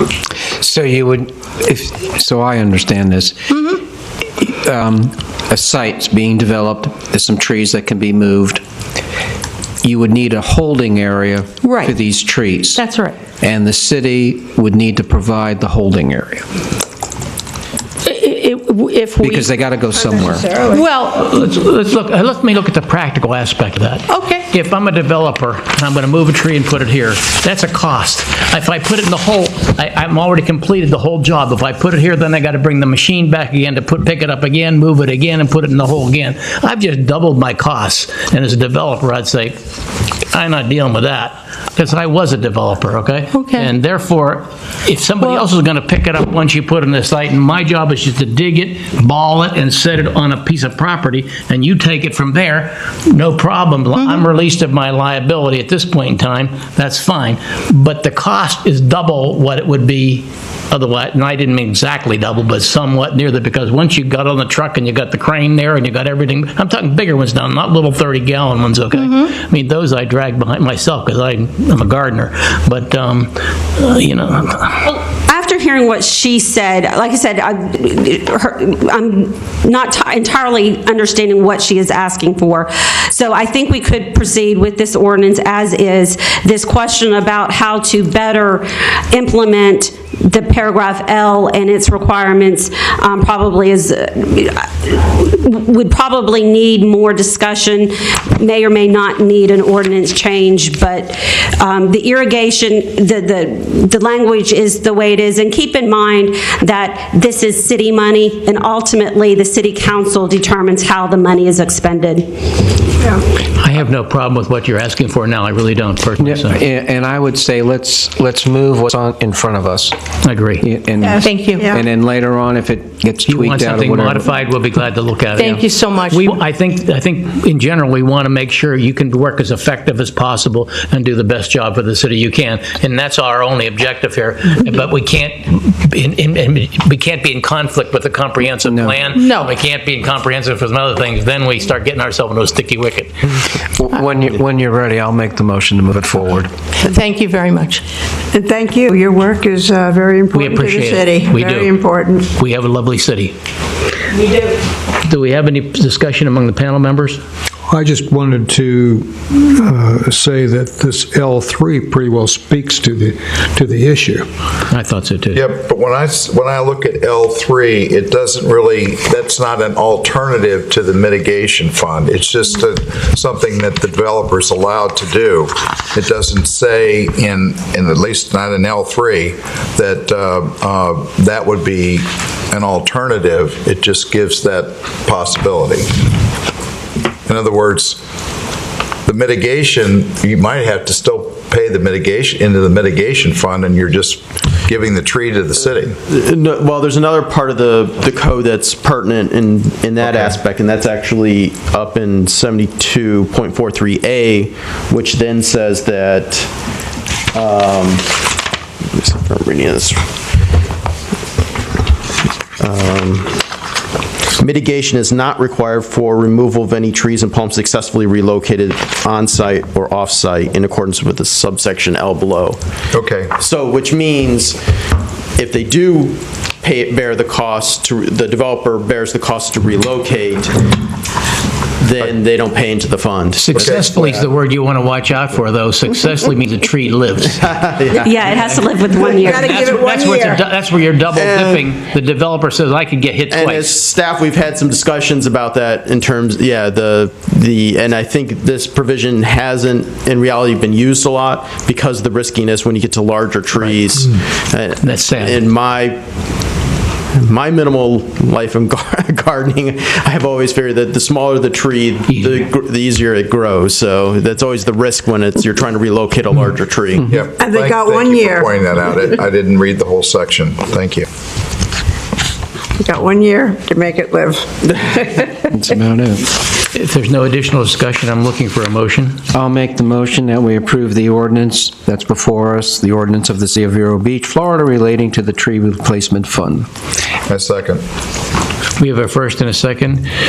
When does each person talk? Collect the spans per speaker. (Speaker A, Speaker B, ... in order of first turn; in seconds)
Speaker A: 0.6-3.8, 4.4-8.6, 9.8-12.8, 13.4-16.4, 19.2-20.5, 116.2-120.0, 120.6-124.3, 138.6-139.1, 143.8-146.5, 275.5-276.3, 279.3-286.7
Speaker B: 11.6-11.9, 12.7-13.2, 18.0-19.5, 20.7-21.3, 24.1-24.5, 43.3-43.7, 54.0-54.2, 121.2-121.6, 125.3-126.4, 139.1-139.5, 146.8-147.8
Speaker C: 19.9-20.8, 121.0-121.8, 148.3-152.3, 239.2-240.4, 267.3-268.5, 272.8-275.4
Speaker D: 21.1-39.6, 40.3-74.8, 113.5-116.6, 120.2-120.7, 123.3-143.3, 150.3-153.3, 155.0-157.2, 164.7-165.5, 233.3-237.5, 238.2-238.6, 239.2-243.7, 254.8-255.4, 276.7-279.2, 288.8-290.1
Speaker E: 74.8-112.6, 238.0-239.5
Speaker F: 157.7-164.3
Speaker G: 165.3-185.9, 187.2-188.0, 189.1-196.0, 222.9-223.3, 233.5-233.9, 267.1-271.1, 287.3-287.8
Speaker H: 196.1-206.5, 207.3-208.2, 208.9-210.0, 212.6-213.4, 214.4-222.6, 223.4-224.6, 225.4-230.6, 231.8-234.3, 237.3-238.2, 241.2-241.6, 243.3-256.0, 257.1-267.1